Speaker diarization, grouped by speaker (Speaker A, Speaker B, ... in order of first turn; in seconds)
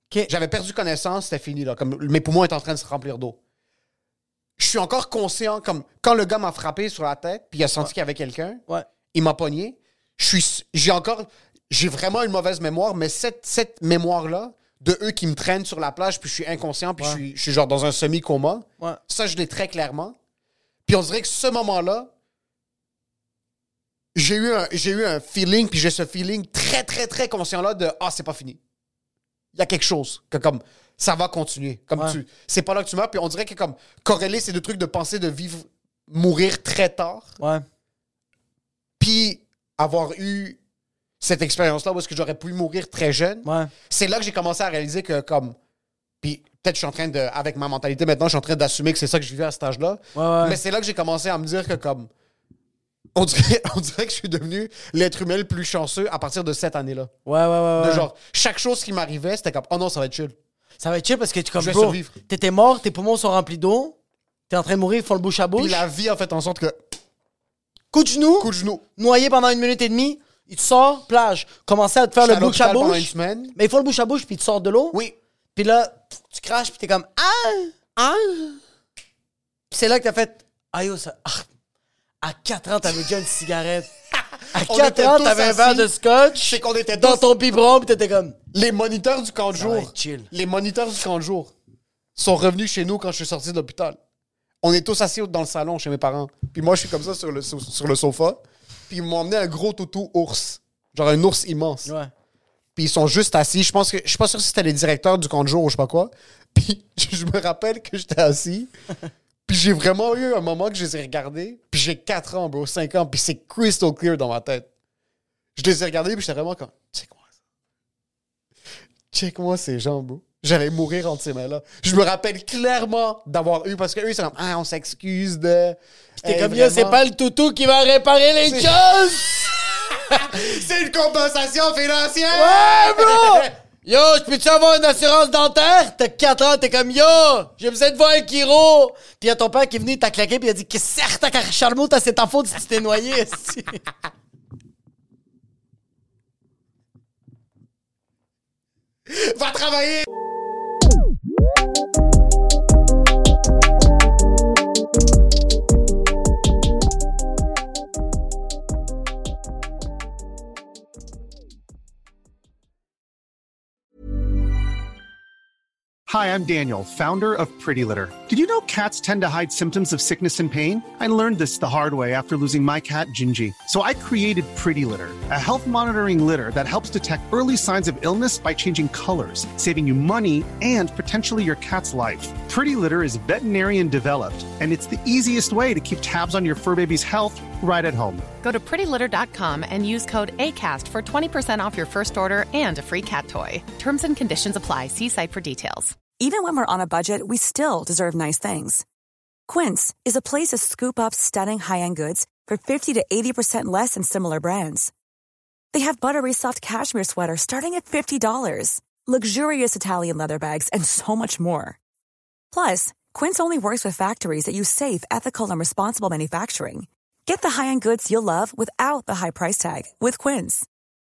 Speaker A: 0.3-3.4, 4.6-8.6, 9.1-20.1, 20.8-22.1, 24.1-28.6, 29.5-37.4, 39.0-40.6, 41.2-45.5, 46.2-52.1, 53.1-57.1, 57.8-60.3, 61.6-62.1, 65.5-66.8, 68.4-68.8, 72.2-73.5, 78.0-78.6, 84.1-87.3, 88.5-91.5, 92.2-94.0, 94.6-101.9, 102.8-108.7, 109.5-114.7, 115.5-117.2, 119.1-127.0, 128.4-129.3, 129.9-133.5, 149.1-150.1
Speaker B: 37.4-37.6, 43.4-43.7, 50.1-50.6, 57.2-58.1, 60.8-64.0, 64.5-65.8, 67.9-75.0, 75.5-77.8, 79.7-81.5, 82.2-83.9, 84.5-88.4, 89.5-90.3, 101.8-102.1, 126.2-129.6, 132.3-143.8
Speaker C: 166.1-188.2
Speaker D: 188.4-196.0
Speaker E: 196.1-198.8, 199.5-204.9, 205.7-211.8, 212.5-220.7